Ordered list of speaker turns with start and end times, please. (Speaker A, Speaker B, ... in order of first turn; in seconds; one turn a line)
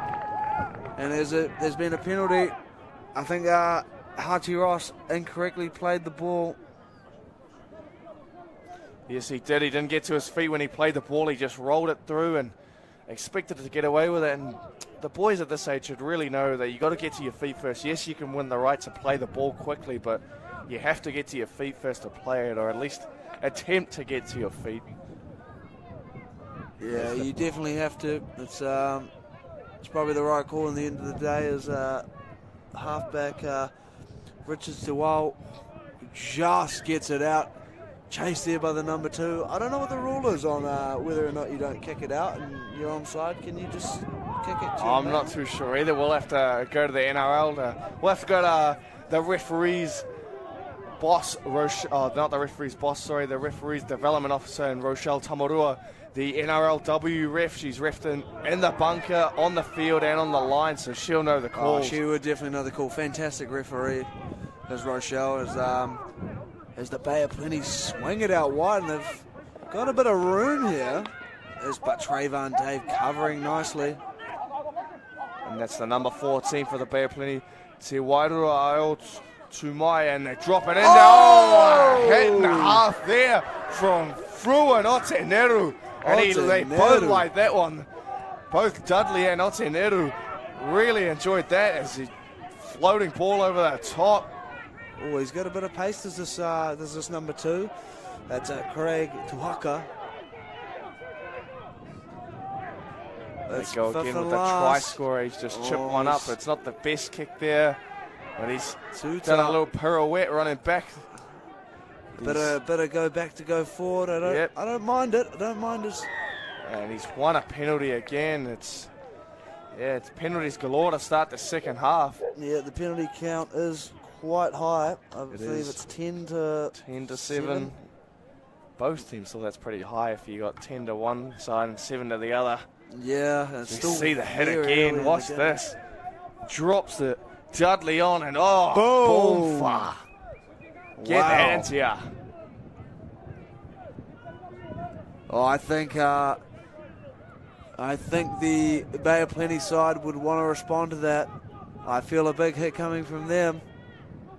Speaker A: 1.0-2.6
Speaker A: 3.1-6.6
Speaker B: 9.1-12.6
Speaker B: 13.1-24.9
Speaker A: 26.8-29.1
Speaker B: 26.9-27.3
Speaker A: 29.8-32.1
Speaker A: 32.7-33.7
Speaker A: 34.5-35.4
Speaker A: 36.0-37.5
Speaker A: 38.1-45.3
Speaker B: 44.8-50.1
Speaker B: 51.0-62.0
Speaker A: 61.5-64.1
Speaker A: 64.7-66.0
Speaker A: 66.8-74.0
Speaker B: 75.4-87.9
Speaker A: 80.8-82.8
Speaker A: 86.0-87.3
Speaker B: 88.5-94.3
Speaker A: 95.0-97.7
Speaker A: 98.3-99.9
Speaker A: 103.5-105.0
Speaker B: 103.5-107.8
Speaker A: 105.5-106.3
Speaker B: 108.4-111.1
Speaker A: 108.9-109.6
Speaker B: 112.1-112.6
Speaker A: 112.2-116.1
Speaker B: 114.2-114.5
Speaker B: 116.6-118.9
Speaker B: 119.7-122.2
Speaker A: 122.3-127.8
Speaker B: 125.3-125.8
Speaker B: 126.7-127.9
Speaker B: 128.8-132.7
Speaker A: 132.9-135.6
Speaker B: 133.7-135.8
Speaker B: 136.4-140.0
Speaker A: 138.7-139.9
Speaker A: 141.0-141.7
Speaker B: 141.0-142.1
Speaker A: 145.3-146.4
Speaker A: 147.8-151.3
Speaker A: 151.8-153.6